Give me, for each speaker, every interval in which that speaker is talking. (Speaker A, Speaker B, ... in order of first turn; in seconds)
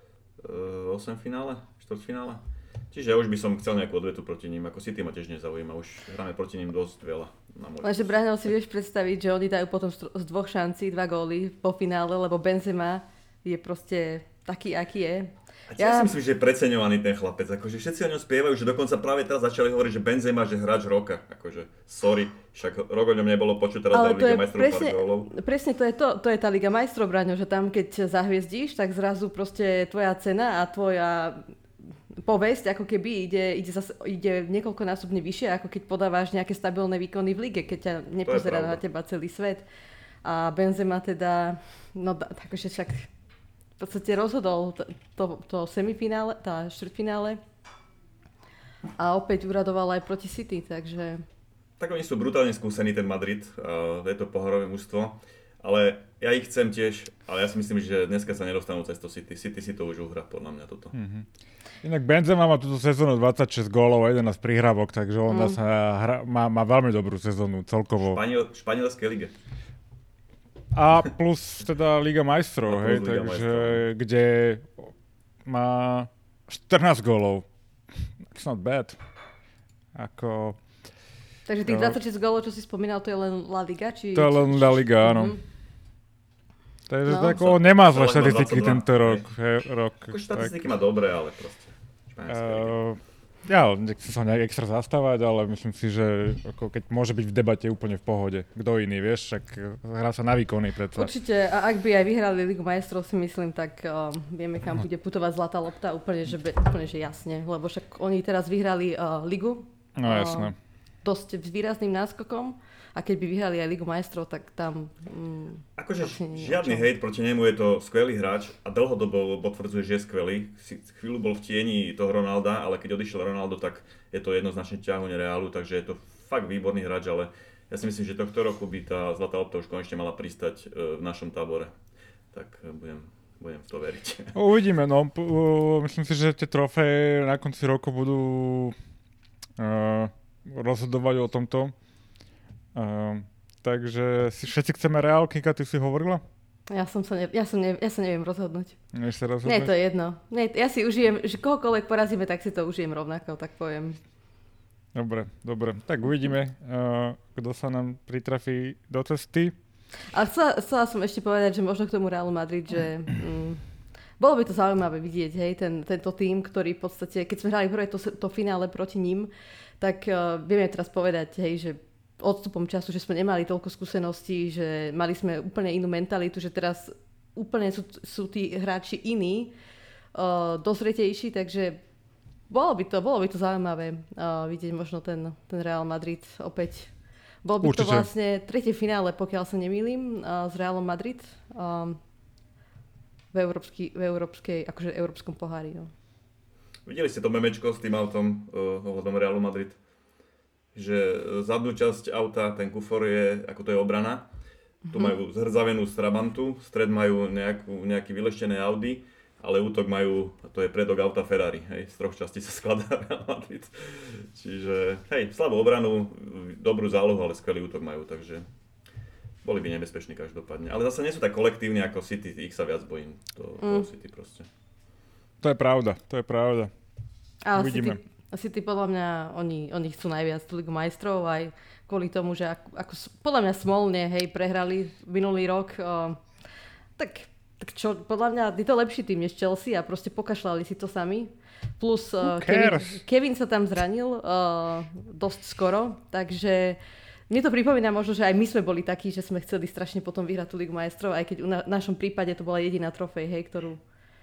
Speaker A: 0.4-8.2, 15.7-25.3, 38.2-38.8, 51.8-61.0, 68.0-69.3, 72.7-73.8, 87.2-89.3, 90.1-92.8, 115.8-131.7, 132.3-134.3, 196.9-199.8, 200.8-204.3, 204.9-218.5, 219.4-224.5
Speaker B: 7.8-16.1, 23.9-31.5, 32.2-39.7, 40.2-43.1, 43.8-47.4, 49.0-51.2, 65.3-65.6, 81.5-85.4, 87.1-87.4, 101.0-116.9, 146.7-148.8, 149.4-154.0, 160.1-163.6, 164.2-179.5, 180.2-181.8, 182.5-186.9, 187.4-192.0, 193.3-195.9, 204.9-205.2, 223.6-223.9, 227.4-236.2, 237.0-253.8
Speaker C: 60.9-61.3, 61.8-68.2, 70.7-74.9, 75.5-77.5, 78.3-79.0, 80.0-80.6, 81.7-82.0, 84.1-85.4, 86.9-90.5, 92.3-101.1, 110.0-110.5, 134.3-138.8, 139.6-141.8, 142.8-146.2, 148.9-149.7, 154.9-159.6, 187.6-188.1, 225.4-226.7, 227.6-228.0, 242.2-243.0